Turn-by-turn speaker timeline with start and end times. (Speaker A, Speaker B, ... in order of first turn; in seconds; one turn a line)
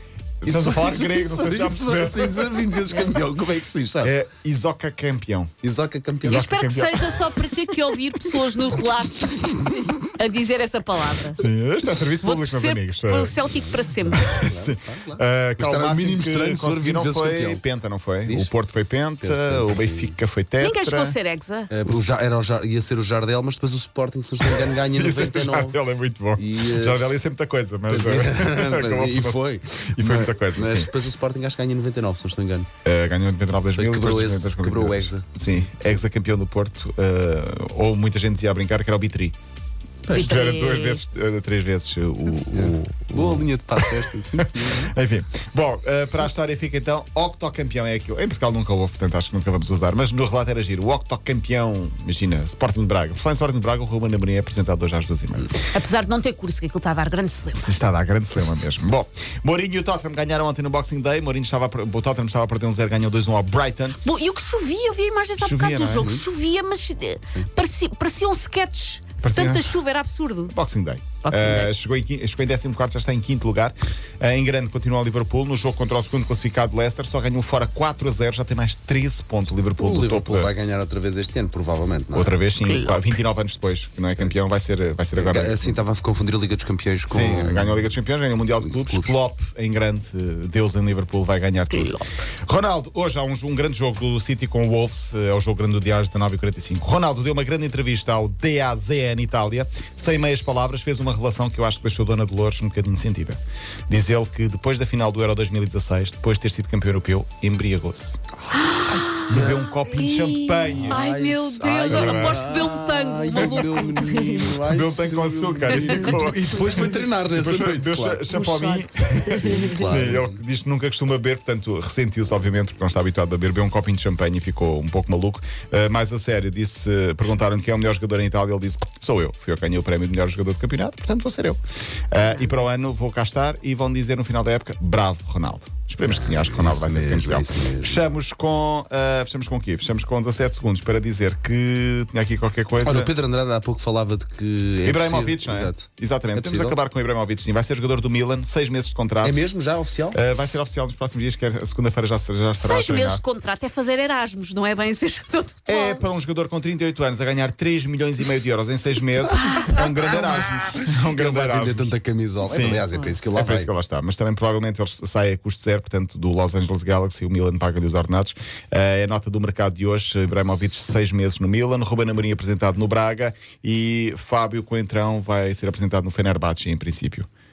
Speaker A: 0.4-2.8
Speaker B: 0.4-4.2
Speaker A: 4.0-5.5
Speaker B: 5.6-6.5
Speaker A: 6.2-8.8
Speaker C: 6.2-11.5
Speaker A: 11.3-13.5
Speaker C: 12.2-14.3
Speaker B: 13.4-17.6
Speaker A: 14.1-21.1
Speaker B: 18.2-18.5
Speaker B: 19.2-20.1
Speaker C: 20.6-21.7
Speaker B: 21.7-25.8
Speaker A: 24.4-30.9
Speaker B: 26.4-27.1
Speaker B: 27.9-32.7
Speaker A: 32.8-39.3
Speaker B: 33.7-36.0
Speaker C: 40.1-41.0
Speaker A: 40.1-55.5
Speaker B: 42.2-44.9
Speaker C: 55.7-57.7
Speaker A: 57.5-64.0
Speaker C: 64.0-70.5
Speaker A: 65.4-66.1
Speaker B: 66.0-66.2
Speaker A: 69.2-69.7
Speaker A: 70.5-80.5
Speaker C: 71.2-71.7
Speaker B: 79.8-82.4
Speaker A: 82.1-85.8
Speaker C: 82.6-83.0
Speaker B: 85.1-87.9
Speaker A: 87.1-108.2
Speaker B: 88.6-89.1
Speaker C: 91.7-92.2
Speaker B: 108.5-109.7
Speaker C: 108.5-114.4
Speaker A: 109.3-111.0
Speaker B: 110.7-118.3
Speaker A: 111.9-112.5
Speaker A: 113.4-113.7
Speaker A: 114.6-131.6
Speaker C: 115.7-116.2
Speaker C: 118.3-119.9
Speaker B: 119.2-120.4
Speaker A: 132.1-143.1
Speaker B: 136.0-138.0
Speaker B: 142.8-146.8
Speaker A: 144.8-149.4
Speaker B: 149.2-150.2
Speaker A: 150.1-153.2
Speaker C: 152.6-156.1
Speaker A: 155.7-177.3
Speaker B: 160.1-163.7